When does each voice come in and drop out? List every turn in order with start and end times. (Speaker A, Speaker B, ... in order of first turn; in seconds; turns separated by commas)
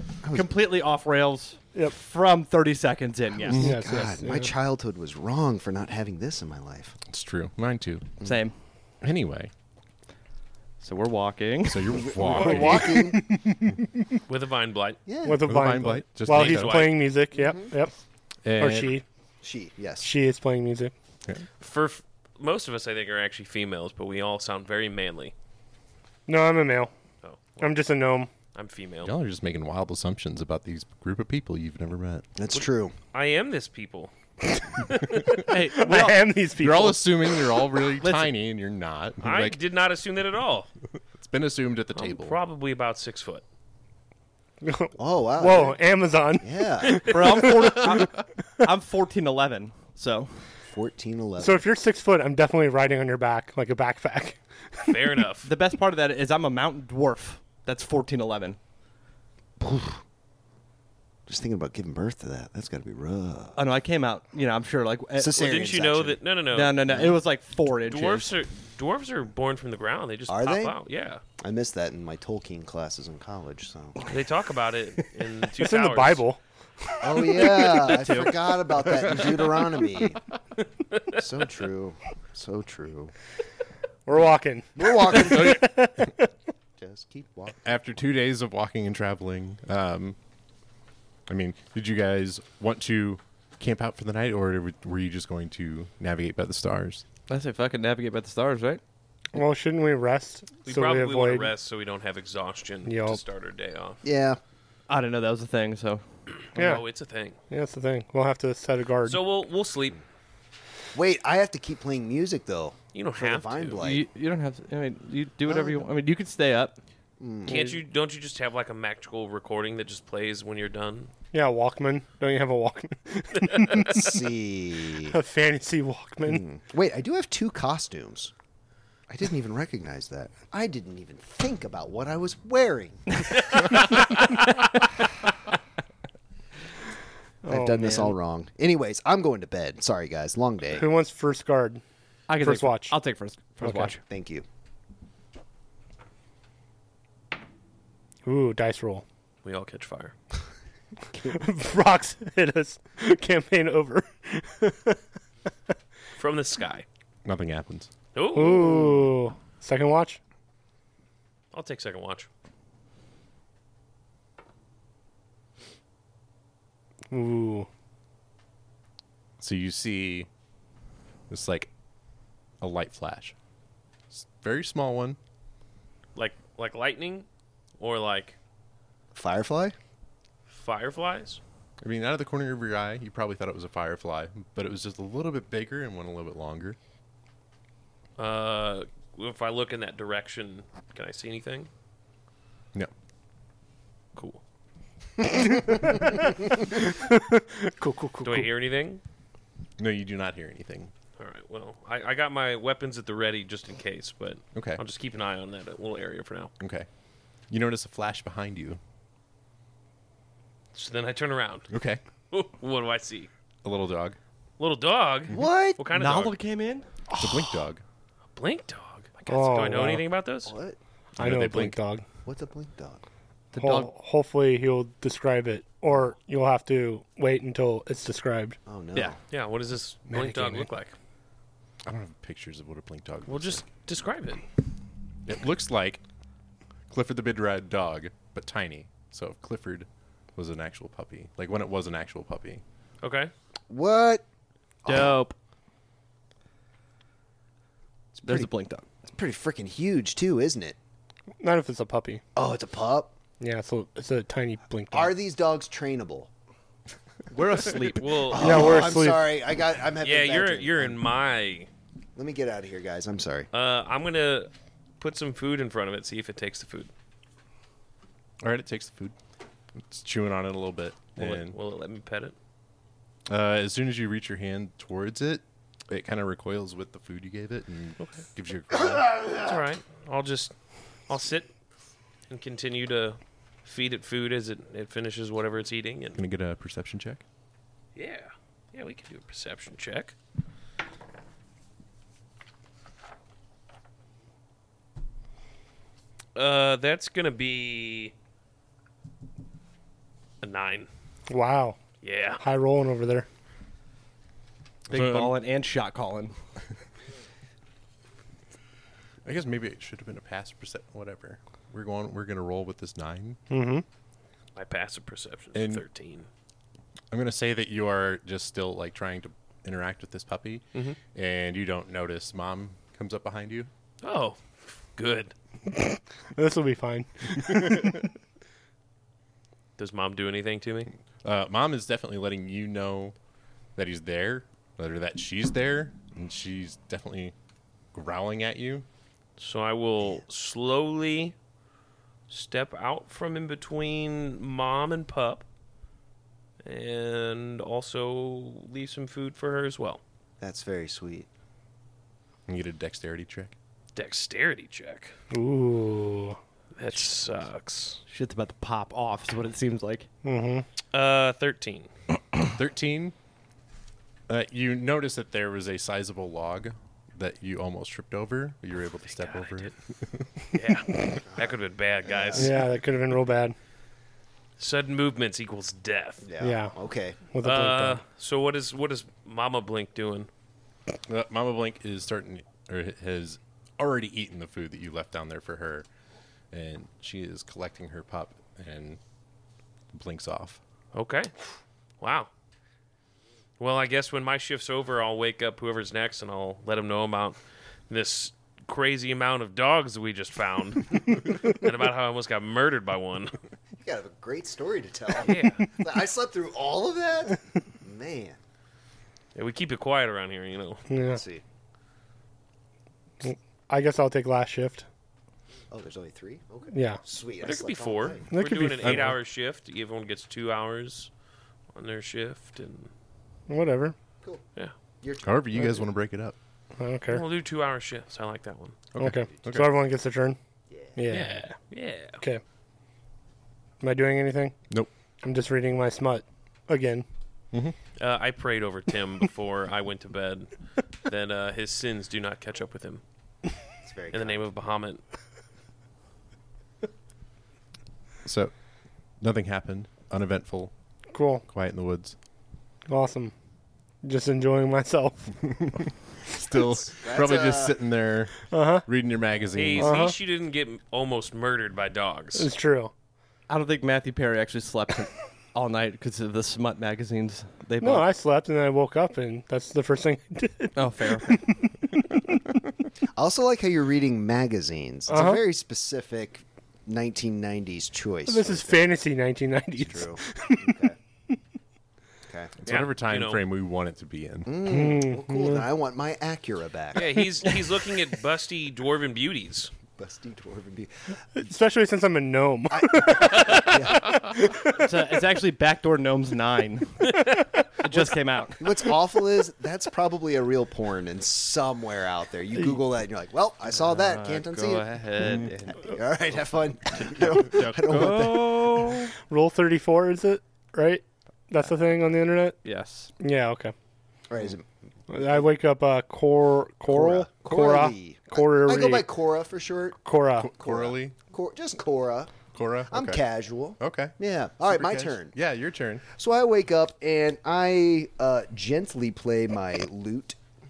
Speaker A: 0.2-0.5, Speaker B: 0.3-3.6, Speaker A: 3.5-7.0, Speaker C: 3.5-4.5, Speaker D: 7.1-8.2, Speaker B: 8.2-8.5, Speaker D: 9.0-9.5, Speaker B: 10.8-12.1, Speaker D: 11.6-13.1, Speaker A: 12.0-13.2, Speaker C: 12.3-14.2, Speaker E: 14.3-15.0, Speaker A: 15.1-15.4, Speaker C: 15.2-17.9, Speaker D: 15.4-16.9, Speaker E: 16.3-17.0, Speaker A: 17.3-17.7, Speaker D: 18.4-18.9, Speaker C: 18.6-19.0, Speaker A: 19.4-20.1, Speaker C: 20.0-20.9, Speaker E: 21.6-25.3, Speaker C: 26.3-26.9, Speaker E: 27.2-27.7, Speaker C: 27.6-28.3, Speaker E: 28.5-29.1, Speaker D: 29.0-32.2, Speaker A: 32.4-32.9, Speaker E: 32.5-34.1, Speaker C: 34.5-37.6, Speaker D: 35.1-35.4, Speaker B: 35.5-36.2, Speaker D: 36.5-39.6, Speaker B: 38.0-38.3, Speaker E: 39.2-40.7, Speaker D: 41.2-42.4, Speaker E: 41.9-43.4, Speaker C: 44.6-48.1, Speaker A: 45.0-45.8, Speaker A: 46.4-47.1, Speaker B: 47.1-50.3, Speaker D: 47.9-48.2, Speaker A: 50.6-51.6, Speaker C: 51.4-55.0, Speaker E: 54.9-55.5, Speaker B: 55.4-58.6, Speaker A: 59.6-60.0, Speaker A: 61.3-63.6, Speaker B: 63.5-65.5, Speaker A: 65.2-66.2, Speaker E: 65.3-66.8, Speaker B: 66.5-68.3, Speaker A: 66.9-67.1, Speaker E: 67.8-71.2, Speaker A: 70.3-70.8, Speaker A: 71.4-74.1, Speaker E: 74.1-76.2, Speaker C: 75.6-76.4, Speaker A: 77.0-80.2, Speaker C: 77.3-77.7, Speaker B: 77.8-78.3, Speaker A: 81.1-83.1, Speaker C: 84.0-86.3, Speaker A: 84.8-85.7, Speaker D: 85.2-85.8, Speaker A: 86.8-87.7, Speaker D: 87.6-90.2, Speaker D: 91.3-97.0, Speaker B: 97.3-98.8, Speaker C: 99.3-101.5, Speaker E: 100.6-104.0, Speaker C: 102.9-103.2, Speaker A: 104.0-104.4, Speaker B: 104.9-106.0, Speaker E: 106.5-107.4, Speaker C: 106.5-106.8, Speaker C: 107.5-109.2, Speaker E: 109.0-110.0, Speaker A: 110.9-114.0, Speaker E: 112.9-113.8, Speaker B: 113.8-116.8, Speaker A: 115.5-115.8, Speaker A: 117.2-117.6, Speaker E: 117.5-121.1, Speaker C: 117.5-117.8, Speaker C: 121.3-124.0, Speaker A: 123.8-125.1, Speaker C: 125.1-126.4, Speaker A: 126.2-128.3, Speaker A: 129.1-133.4, Speaker E: 133.4-134.5, Speaker C: 137.4-138.1, Speaker A: 137.4-140.8, Speaker C: 140.7-141.8, Speaker B: 142.3-144.0, Speaker C: 142.4-143.0, Speaker C: 143.6-144.0, Speaker A: 144.1-144.4, Speaker C: 148.2-149.0, Speaker E: 149.4-150.1, Speaker C: 151.2-155.0, Speaker E: 156.2-156.8, Speaker D: 157.2-157.9, Speaker E: 158.1-158.7, Speaker C: 158.3-160.2, Speaker A: 158.6-158.9, Speaker E: 161.5-162.3, Speaker C: 167.1-167.7, Speaker D: 169.4-170.3, Speaker D: 171.3-171.7, Speaker D: 172.6-173.3, Speaker D: 174.1-175.2, Speaker E: 176.2-177.3, Speaker E: 177.8-178.4, Speaker A: 179.1-179.7, Speaker E: 180.5-181.4, Speaker D: 181.8-186.8, Speaker E: 188.2-191.7, Speaker E: 194.2-194.4, Speaker C: 195.3-198.5, Speaker E: 198.2-199.0, Speaker D: 199.8-200.9, Speaker E: 201.2-206.5, Speaker D: 204.5-204.8, Speaker D: 206.6-206.9, Speaker D: 207.5-208.8, Speaker E: 210.7-211.7, Speaker D: 211.7-212.0, Speaker E: 212.3-213.3, Speaker D: 213.6-214.2, Speaker E: 214.6-216.4, Speaker A: 215.3-215.8, Speaker B: 215.9-216.8, Speaker D: 217.1-217.8, Speaker E: 218.3-220.6, Speaker C: 219.3-220.0, Speaker A: 220.4-220.8, Speaker D: 221.2-221.8, Speaker C: 221.2-222.0, Speaker A: 222.2-223.0, Speaker B: 223.5-223.9, Speaker C: 223.6-228.6, Speaker A: 228.7-229.2, Speaker E: 229.3-230.9, Speaker D: 231.8-233.6, Speaker E: 233.3-234.4, Speaker D: 235.2-236.0, Speaker D: 236.9-242.6, Speaker E: 243.0-243.3, Speaker A: 243.7-244.2, Speaker A: 244.8-245.2, Speaker B: 244.8-245.3, Speaker A: 248.1-248.5, Speaker B: 248.2-248.8, Speaker A: 249.1-250.8, Speaker C: 251.4-252.2, Speaker A: 252.3-253.1, Speaker C: 253.4-255.1, Speaker A: 254.9-256.3, Speaker B: 257.3-258.3, Speaker E: 257.8-258.7, Speaker A: 258.3-261.0, Speaker C: 258.3-259.3, Speaker E: 260.0-261.7, Speaker A: 262.1-263.5, Speaker E: 263.5-266.9, Speaker D: 268.4-269.1, Speaker D: 269.8-271.6, Speaker E: 271.2-272.3, Speaker D: 273.3-279.4, Speaker E: 279.4-280.5, Speaker E: 281.1-281.5, Speaker E: 282.3-286.2, Speaker D: 286.1-287.2, Speaker E: 287.9-290.1, Speaker E: 296.3-298.1, Speaker E: 300.4-300.9, Speaker C: 301.3-301.8, Speaker E: 302.0-302.4, Speaker C: 302.4-303.3, Speaker D: 304.9-305.3, Speaker B: 304.9-306.3, Speaker D: 309.2-313.4, Speaker C: 313.5-313.8, Speaker E: 314.5-316.3, Speaker D: 315.5-315.8, Speaker D: 317.1-323.7, Speaker E: 324.0-325.3, Speaker C: 325.7-328.1, Speaker E: 329.8-330.9, Speaker D: 331.2-333.1, Speaker D: 333.8-337.3, Speaker D: 337.9-338.9, Speaker E: 339.4-341.3, Speaker E: 342.3-345.4, Speaker E: 346.6-350.0, Speaker A: 350.4-351.3, Speaker D: 352.5-353.5, Speaker E: 353.9-355.1, Speaker C: 355.3-356.4, Speaker E: 356.8-358.0, Speaker B: 358.1-360.1, Speaker C: 360.2-360.6, Speaker E: 360.9-361.9, Speaker D: 362.4-363.1, Speaker D: 364.3-370.3, Speaker E: 369.1-369.7, Speaker E: 370.5-372.5, Speaker A: 372.1-372.5, Speaker C: 372.4-373.6, Speaker E: 374.6-376.2, Speaker A: 376.2-377.2, Speaker C: 376.4-376.8, Speaker C: 377.3-378.0, Speaker E: 377.4-380.3, Speaker D: 381.1-385.9, Speaker D: 386.5-389.0, Speaker D: 389.9-390.6, Speaker E: 390.9-391.3, Speaker E: 392.0-392.3, Speaker E: 393.6-403.4, Speaker A: 403.8-408.4, Speaker E: 405.1-405.6, Speaker E: 409.3-410.8, Speaker C: 410.9-411.2, Speaker A: 411.1-411.4, Speaker C: 413.2-414.9, Speaker A: 415.7-418.2, Speaker C: 416.7-417.0, Speaker E: 417.4-421.1, Speaker C: 418.3-419.1, Speaker D: 418.8-419.2, Speaker E: 421.7-422.9, Speaker C: 423.5-423.9, Speaker A: 425.0-425.9, Speaker D: 425.2-426.3, Speaker C: 426.8-427.2, Speaker E: 427.1-428.8, Speaker D: 428.9-429.7, Speaker C: 429.0-430.4, Speaker A: 430.7-431.0, Speaker C: 430.9-431.6, Speaker E: 431.1-432.2, Speaker C: 433.8-434.6, Speaker C: 435.2-437.0, Speaker E: 438.0-440.5, Speaker E: 441.0-443.0, Speaker A: 443.8-444.4, Speaker E: 444.1-445.0, Speaker D: 448.2-448.5, Speaker D: 449.2-450.7, Speaker C: 451.1-451.4, Speaker D: 451.5-452.1, Speaker C: 452.9-453.3, Speaker C: 454.0-455.3, Speaker D: 456.3-460.1, Speaker A: 456.5-457.8, Speaker C: 458.5-458.9, Speaker E: 459.5-462.5, Speaker C: 459.8-460.1, Speaker C: 462.3-462.9, Speaker B: 463.5-468.1, Speaker C: 467.8-472.4, Speaker B: 470.8-471.4, Speaker A: 473.1-478.9, Speaker C: 475.1-475.4, Speaker C: 478.3-480.7, Speaker A: 479.8-480.9, Speaker A: 482.3-482.5, Speaker D: 482.6-484.6, Speaker E: 482.6-483.4, Speaker A: 484.4-487.2, Speaker C: 484.6-485.6, Speaker E: 486.9-489.7, Speaker A: 489.9-491.2, Speaker C: 491.3-494.9, Speaker A: 492.7-494.1, Speaker B: 494.6-497.3, Speaker B: 497.8-498.6, Speaker A: 498.6-509.0, Speaker B: 503.7-505.9, Speaker D: 505.2-505.5, Speaker B: 507.2-509.1, Speaker C: 509.3-512.6, Speaker B: 512.6-513.1, Speaker C: 513.2-513.7, Speaker A: 514.3-515.4, Speaker C: 515.1-519.0, Speaker A: 516.9-520.0, Speaker C: 520.0-520.5, Speaker D: 520.4-521.1, Speaker A: 520.6-525.3, Speaker D: 522.5-523.2, Speaker D: 523.8-524.1, Speaker D: 524.7-526.1, Speaker A: 526.1-530.4